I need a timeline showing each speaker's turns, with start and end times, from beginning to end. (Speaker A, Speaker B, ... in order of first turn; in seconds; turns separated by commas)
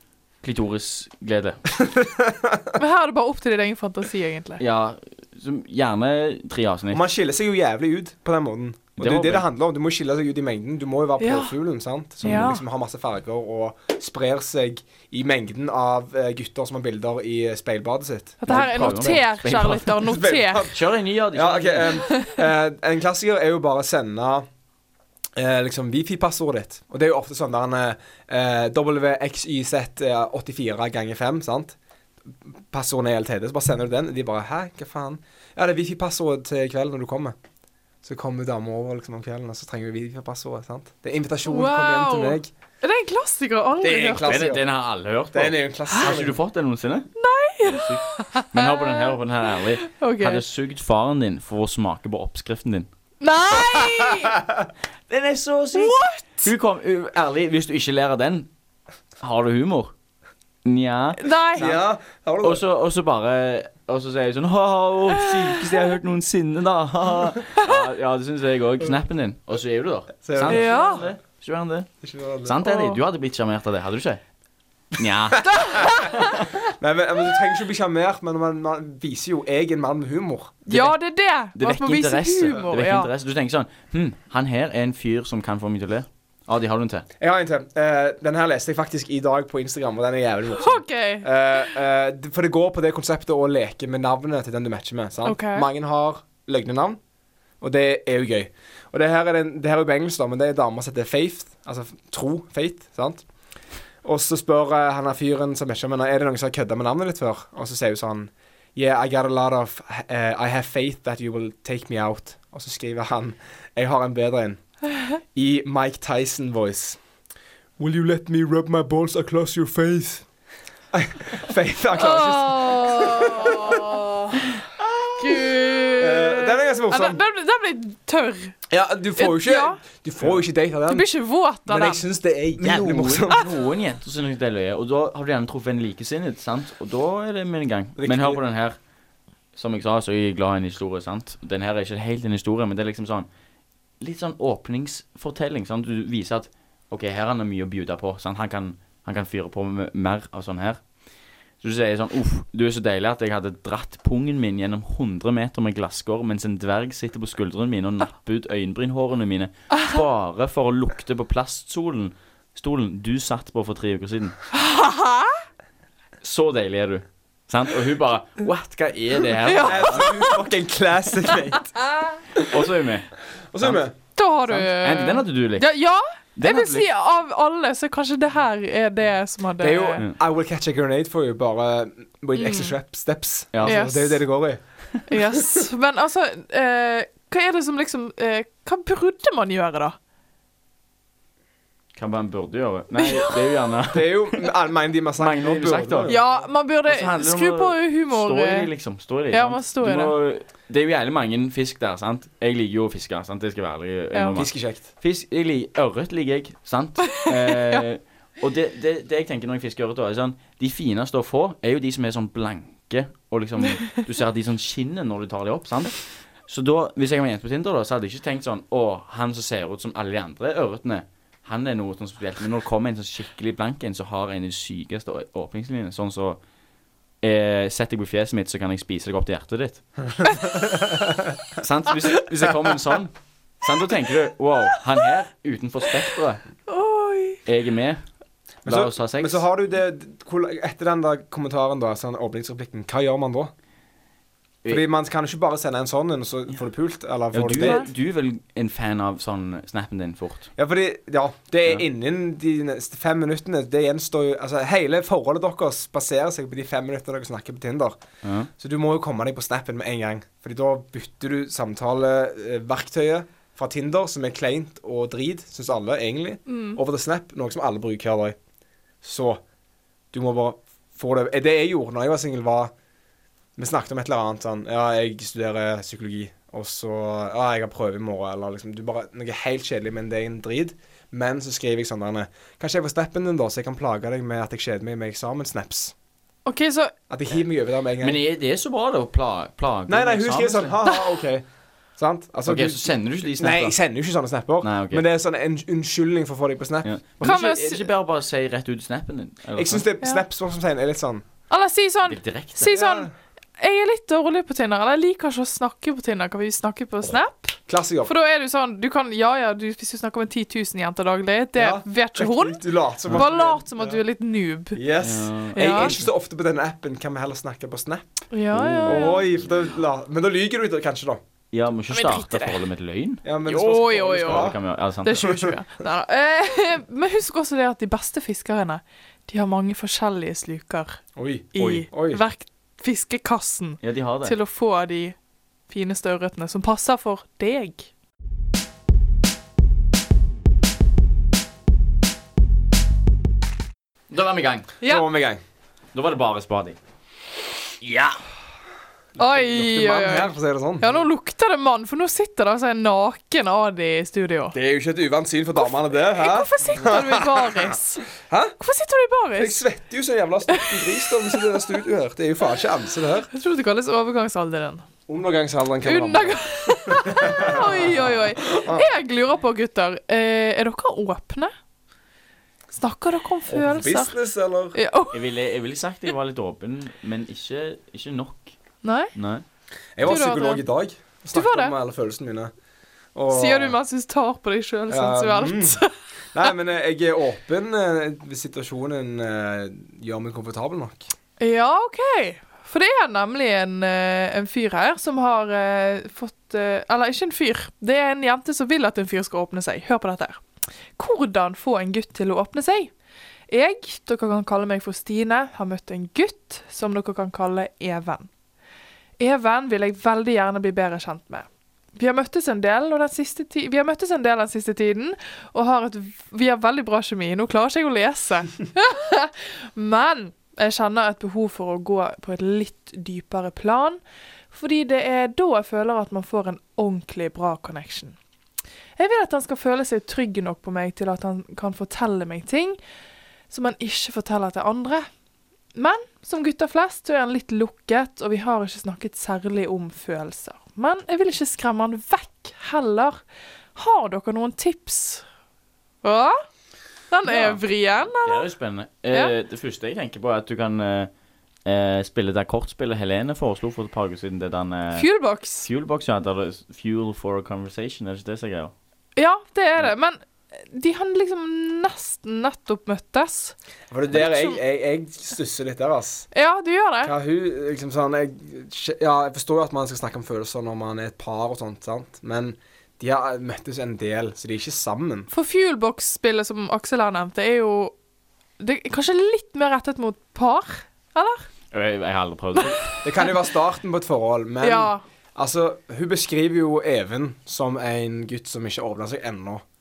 Speaker A: 0.4-1.6, Speaker B: 1.8-2.8, Speaker C: 2.8-4.6, Speaker A: 4.6-7.0, Speaker B: 6.9-19.2, Speaker A: 9.0-9.4, Speaker C: 11.2-11.5, Speaker C: 12.2-12.6, Speaker A: 12.2-12.5, Speaker C: 18.4-20.7, Speaker A: 18.5-22.0, Speaker B: 20.0-20.8, Speaker B: 21.3-24.4, Speaker C: 22.1-22.3, Speaker B: 25.4-31.8, Speaker B: 32.7-37.3, Speaker B: 38.0-42.5, Speaker C: 41.5-44.5, Speaker B: 43.8-44.6, Speaker A: 44.2-47.1, Speaker B: 45.3-46.4, Speaker C: 47.2-50.4, Speaker A: 47.6-52.9, Speaker C: 53.2-54.4, Speaker B: 53.5-54.6, Speaker A: 55.1-58.5, Speaker C: 55.7-56.5, Speaker A: 59.2-59.9, Speaker A: 60.6-61.8, Speaker C: 61.2-61.7, Speaker B: 61.5-62.6, Speaker A: 62.4-71.9, Speaker C: 65.2-65.8, Speaker C: 67.6-67.8, Speaker B: 70.2-70.8, Speaker C: 70.5-71.1, Speaker B: 72.0-72.5, Speaker A: 72.4-74.2, Speaker C: 72.6-73.0, Speaker A: 75.0-76.4, Speaker C: 75.5-76.4, Speaker B: 76.8-80.7, Speaker C: 80.7-83.1, Speaker A: 81.5-87.0, Speaker B: 87.2-97.0, Speaker C: 90.5-91.2, Speaker C: 95.2-95.7, Speaker B: 97.6-103.2, Speaker B: 104.0-114.6, Speaker B: 115.3-117.0, Speaker B: 117.8-120.2, Speaker B: 120.9-124.0, Speaker C: 122.0-124.4, Speaker B: 125.0-127.2, Speaker C: 125.2-128.6, Speaker B: 128.7-131.1, Speaker C: 129.2-129.8, Speaker C: 130.9-132.0, Speaker B: 131.7-133.5, Speaker A: 132.6-138.8, Speaker B: 138.0-138.4, Speaker A: 139.5-143.3, Speaker A: 144.0-150.8, Speaker A: 151.6-164.4, Speaker C: 164.5-165.4, Speaker A: 166.2-170.2, Speaker C: 169.4-170.4, Speaker B: 169.6-171.8, Speaker A: 172.4-173.8, Speaker B: 173.5-173.9, Speaker C: 174.2-180.0, Speaker A: 174.5-175.7, Speaker A: 176.4-176.9, Speaker B: 179.6-185.2, Speaker C: 182.4-182.8, Speaker A: 183.5-183.8, Speaker C: 183.6-184.2, Speaker C: 185.1-190.0, Speaker A: 191.9-194.5, Speaker C: 192.9-193.6, Speaker B: 193.9-196.2, Speaker A: 195.2-196.2, Speaker C: 196.1-198.7, Speaker A: 196.9-226.4, Speaker C: 199.3-200.1, Speaker C: 204.1-204.4, Speaker B: 204.4-204.8, Speaker C: 207.1-207.8, Speaker A: 227.2-229.8, Speaker B: 230.2-231.1, Speaker A: 231.5-236.4, Speaker C: 236.7-237.4, Speaker A: 237.4-238.0, Speaker A: 238.6-239.4, Speaker B: 238.6-243.5, Speaker B: 244.7-247.8, Speaker A: 247.3-250.5, Speaker C: 247.6-247.9, Speaker B: 250.6-257.9, Speaker A: 258.2-258.5, Speaker B: 258.6-268.4, Speaker C: 266.5-266.8, Speaker B: 269.0-269.4, Speaker B: 270.1-272.7, Speaker B: 273.6-285.9, Speaker C: 286.4-286.9, Speaker B: 287.1-288.2, Speaker A: 288.0-290.8, Speaker B: 289.9-291.4, Speaker B: 292.0-296.9, Speaker A: 292.4-293.8, Speaker A: 294.6-295.0, Speaker A: 296.8-299.9, Speaker C: 297.2-297.9, Speaker B: 299.5-301.2, Speaker C: 301.5-312.6, Speaker A: 302.1-302.7, Speaker B: 302.6-303.1, Speaker B: 307.7-308.1, Speaker B: 311.6-314.0, Speaker C: 313.1-314.8, Speaker B: 314.7-318.1, Speaker A: 315.0-316.1, Speaker C: 315.5-316.0, Speaker C: 318.3-319.2, Speaker A: 318.5-319.4, Speaker B: 318.6-321.2, Speaker A: 321.5-323.2, Speaker C: 321.9-322.6, Speaker B: 323.2-324.6, Speaker C: 323.4-331.0, Speaker A: 324.2-325.3, Speaker B: 325.2-325.5, Speaker B: 331.1-332.2, Speaker C: 331.5-335.1, Speaker A: 333.8-334.3, Speaker C: 335.7-337.9, Speaker A: 344.1-344.7, Speaker B: 344.8-345.4, Speaker A: 345.9-346.8, Speaker A: 347.8-348.2, Speaker B: 349.2-351.0, Speaker C: 349.2-354.5, Speaker B: 354.5-357.7, Speaker C: 355.6-358.1, Speaker B: 358.2-358.5, Speaker C: 358.6-359.6, Speaker B: 359.4-363.3, Speaker C: 360.5-361.7, Speaker C: 363.3-364.8, Speaker B: 365.1-368.9, Speaker C: 365.8-371.5, Speaker C: 372.7-374.2, Speaker B: 373.5-374.8, Speaker C: 374.7-375.2, Speaker A: 375.1-378.6, Speaker C: 378.8-379.1, Speaker A: 379.1-379.4, Speaker B: 380.0-382.5, Speaker C: 380.0-380.6, Speaker C: 381.3-381.7, Speaker B: 383.1-383.8, Speaker C: 383.3-385.9, Speaker B: 384.9-385.8, Speaker B: 386.3-391.1, Speaker C: 391.4-400.4, Speaker C: 401.0-402.9, Speaker C: 403.5-408.3, Speaker C: 409.2-424.0, Speaker C: 424.5-428.1, Speaker C: 429.0-432.8, Speaker C: 433.5-435.1, Speaker C: 435.8-443.2, Speaker C: 443.8-445.2, Speaker C: 446.0-446.4, Speaker C: 447.1-448.5, Speaker A: 447.2-447.6, Speaker A: 448.2-451.1, Speaker A: 451.6-455.1, Speaker C: 454.9-455.7, Speaker A: 455.6-458.7, Speaker C: 459.1-463.6, Speaker B: 463.9-466.3, Speaker C: 464.1-464.6, Speaker C: 466.3-467.1, Speaker B: 467.0-475.3, Speaker C: 475.3-477.9, Speaker C: 478.6-481.4, Speaker A: 481.7-482.9, Speaker B: 483.0-489.6, Speaker C: 484.6-485.0